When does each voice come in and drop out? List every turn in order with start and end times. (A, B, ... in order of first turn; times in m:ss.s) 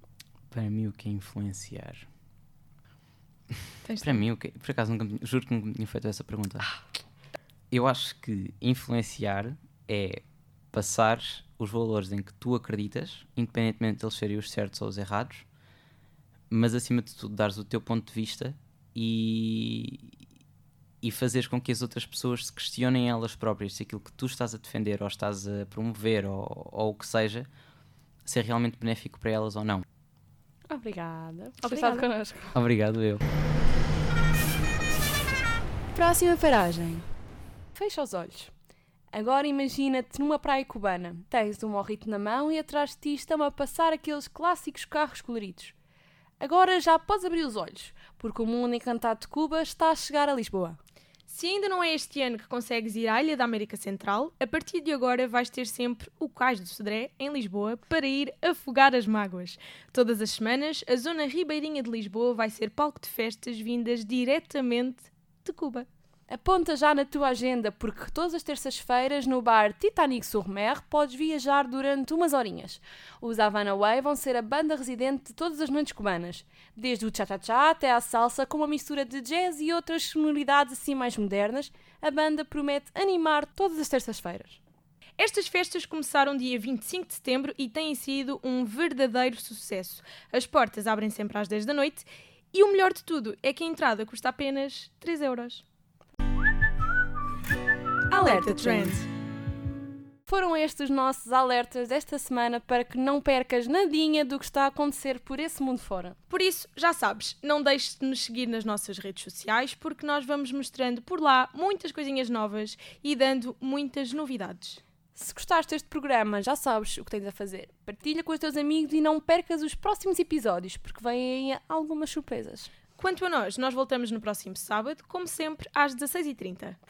0:00.5-0:02.1 A
0:03.8-0:04.2 B
0:04.0-0:06.7 A
0:07.7-0:15.4 A
0:16.5-0:20.1 A
0:21.0-0:27.5 A
0:28.2-0:29.8 A
0:30.7-0:32.6 C
0:31.6-0:32.1 B
0:32.5-0:33.2 A
0:35.9-0:37.0 C
0:37.7-0:38.5 C
0:39.1-0:45.7 C
0:46.4-0:50.8 C
0:51.3-1:05.9 B
1:06.3-1:24.6 C
1:25.2-1:35.6 B
1:38.1-1:39.0 B
1:38.1-1:39.0 C
1:40.3-1:46.2 C
1:46.3-1:54.8 B
1:55.1-2:02.7 C
2:03.0-2:06.8 B